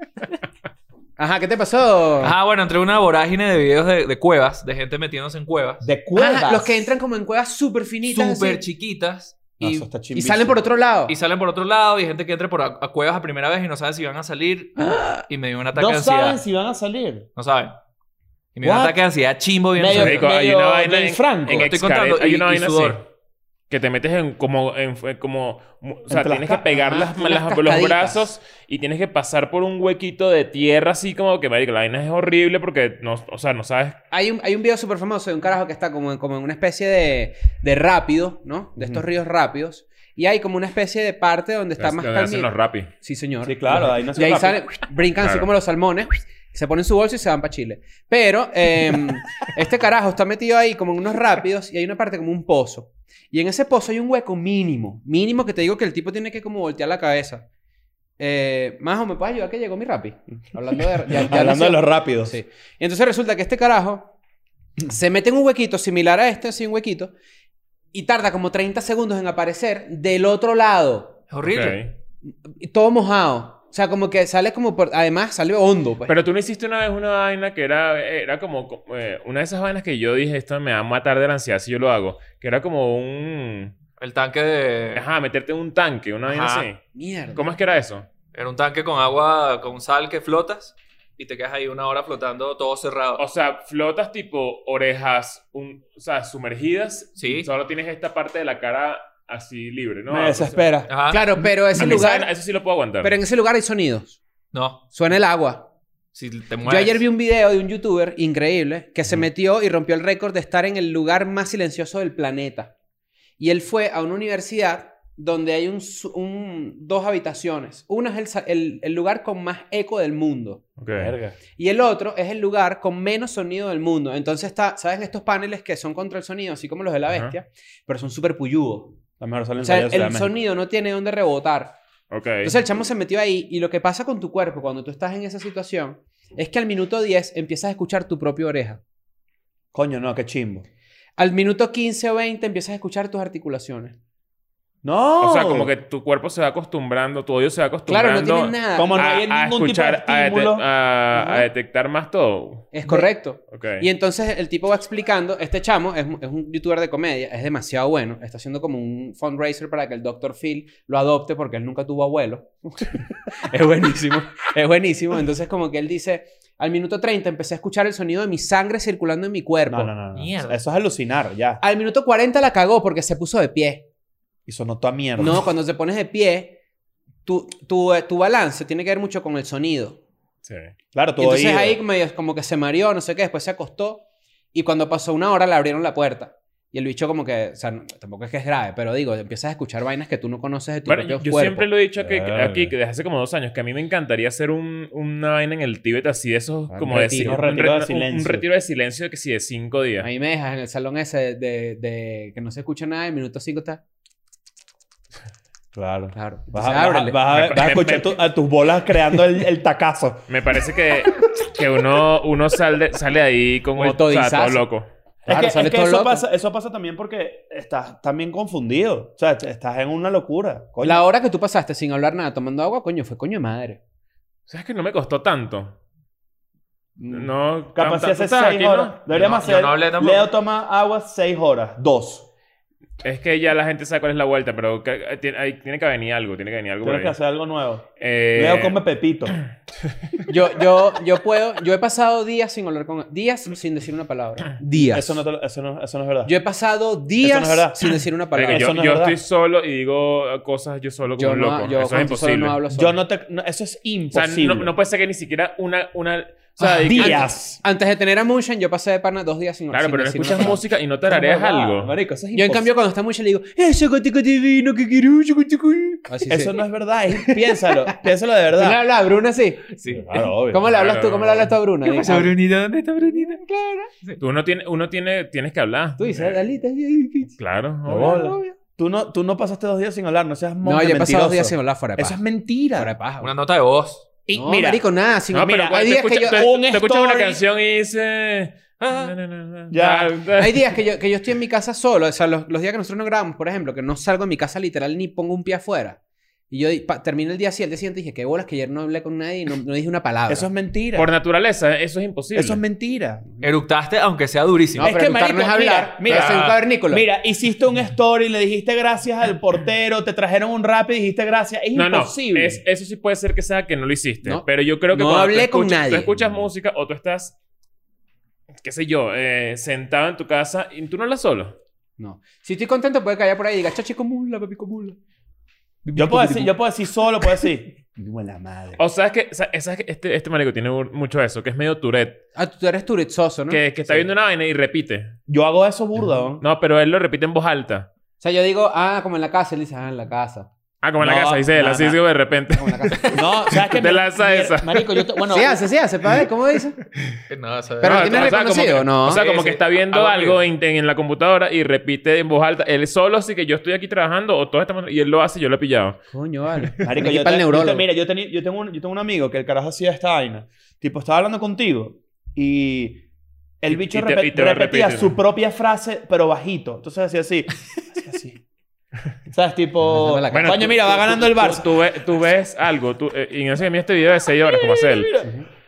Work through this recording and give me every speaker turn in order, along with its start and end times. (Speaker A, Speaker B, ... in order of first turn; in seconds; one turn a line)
Speaker A: 1.2-2.4
Speaker B: 2.2-5.9
Speaker C: 5.8-6.9
Speaker A: 6.2-8.6
Speaker B: 8.1-9.5
Speaker C: 9.6-10.6
Speaker A: 9.6-11.1
Speaker B: 11.1-16.4
Speaker C: 14.8-15.2
Speaker C: 15.7-17.3
Speaker B: 17.4-17.8
Speaker B: 18.6-20.3
Speaker C: 18.6-19.0
Speaker C: 19.8-21.7
Speaker D: 19.9-23.1
Speaker B: 21.5-23.0
Speaker D: 23.7-34.0
Speaker C: 26.1-26.8
Speaker A: 26.8-28.3
Speaker A: 34.1-57.5
Speaker C: 38.8-39.0
Speaker D: 41.8-42.9
Speaker C: 43.4-44.6
Speaker D: 45.2-45.5
Speaker A: 58.2-64.1
Speaker C: 61.0-62.4
Speaker A: 64.8-67.1
Speaker A: 67.9-71.2
Speaker B: 71.3-71.8
Speaker D: 71.4-71.9
Speaker A: 72.5-76.1
Speaker D: 76.1-83.8
Speaker B: 84.0-85.0
Speaker D: 85.0-86.8
Speaker A: 86.3-87.4
Speaker D: 87.3-88.1
Speaker B: 88.3-93.2
Speaker D: 93.2-100.7
Speaker B: 97.2-97.5
Speaker C: 100.1-102.1
Speaker B: 100.9-101.2
Speaker A: 101.1-102.3
Speaker D: 101.8-103.1
Speaker A: 103.0-104.2
Speaker B: 104.5-104.8
Speaker A: 104.9-105.7
Speaker B: 106.1-107.0
Speaker A: 106.7-112.7
Speaker A: 113.4-120.6
Speaker D: 120.8-121.2
Speaker C: 121.0-121.4
Speaker A: 121.6-129.0
Speaker D: 127.1-127.3
Speaker C: 129.2-130.3
Speaker A: 129.6-131.8
Speaker D: 132.1-132.6
Speaker A: 132.4-138.8
Speaker C: 139.7-140.7
Speaker A: 141.2-143.9
Speaker C: 144.8-145.7
Speaker D: 145.2-152.7
Speaker A: 147.9-149.0
Speaker C: 148.8-150.6
Speaker A: 151.2-151.4
Speaker A: 152.7-169.9
Speaker D: 153.5-153.9
Speaker C: 169.7-171.6
Speaker B: 170.2-170.6
Speaker A: 171.6-173.8
Speaker C: 174.5-175.4
Speaker A: 175.2-176.6
Speaker A: 177.3-180.0
Speaker D: 180.4-180.7
Speaker C: 180.9-181.8
Speaker A: 181.2-184.0
Speaker A: 184.5-191.7
Speaker D: 190.9-200.1
Speaker C: 192.0-192.7
Speaker A: 196.7-197.4
Speaker C: 196.9-198.4
Speaker A: 200.0-203.8
Speaker C: 205.8-210.3
Speaker A: 206.1-207.2
Speaker D: 207.3-208.2
Speaker D: 210.3-214.9
Speaker A: 213.8-214.7
Speaker C: 215.3-221.0
Speaker A: 215.3-216.2
Speaker A: 220.8-223.8
Speaker D: 224.5-225.8
Speaker C: 227.0-232.3
Speaker D: 227.1-229.0
Speaker B: 229.1-230.3
Speaker D: 233.0-237.2
Speaker C: 236.8-239.4
Speaker D: 238.0-238.8
Speaker A: 240.3-245.2
Speaker C: 244.7-246.3
Speaker A: 246.2-248.7
Speaker C: 247.2-249.2
Speaker D: 248.3-252.6
Speaker A: 251.2-253.0
Speaker C: 252.7-254.7
Speaker D: 254.1-257.3
Speaker A: 256.6-260.6
Speaker C: 256.9-257.6
Speaker D: 259.7-261.9
Speaker C: 261.1-262.7
Speaker A: 262.3-266.6
Speaker C: 266.3-268.8
Speaker A: 267.1-268.0
Speaker A: 268.6-269.6
Speaker B: 269.7-270.2
Speaker C: 269.9-270.7
Speaker A: 270.5-272.3
Speaker D: 270.7-271.5
Speaker B: 271.8-273.4
Speaker A: 273.4-273.9
Speaker D: 274.2-276.3
Speaker A: 276.0-277.4
Speaker D: 277.4-278.2
Speaker C: 277.9-282.9
Speaker A: 277.9-278.6
Speaker A: 280.6-282.2
Speaker A: 282.8-283.3
Speaker B: 283.2-284.1
Speaker C: 284.3-284.8
Speaker A: 284.3-286.5
Speaker D: 285.3-290.7
Speaker C: 285.3-287.4
Speaker B: 288.8-289.1
Speaker C: 289.7-290.2
Speaker A: 290.4-296.0
Speaker A: 296.5-300.5
Speaker C: 300.3-301.1
Speaker D: 300.9-302.6
Speaker C: 302.4-303.2
Speaker B: 303.4-304.9
Speaker A: 304.8-307.1
Speaker C: 304.8-312.6
Speaker D: 306.1-306.4
Speaker D: 311.8-317.4
Speaker A: 314.2-316.1
Speaker D: 318.6-321.6
Speaker A: 322.0-325.0
Speaker A: 325.9-326.5
Speaker C: 325.9-328.8
Speaker D: 328.8-332.2
Speaker A: 332.4-333.6
Speaker D: 333.5-335.1
Speaker C: 335.3-336.4
Speaker D: 336.4-337.9
Speaker A: 338.2-340.5
Speaker D: 340.8-345.0
Speaker C: 341.0-342.0
Speaker A: 342.5-343.2
Speaker C: 343.1-345.7
Speaker A: 345.3-346.8
Speaker B: 347.3-348.4
Speaker A: 347.8-349.2
Speaker D: 347.8-356.0
Speaker B: 349.1-350.4
Speaker A: 356.1-357.9
Speaker C: 356.8-363.0
Speaker C: 363.6-368.4
Speaker D: 363.7-365.2
Speaker C: 369.3-371.7
Speaker A: 369.9-371.0
Speaker D: 370.3-375.1
Speaker C: 374.5-375.3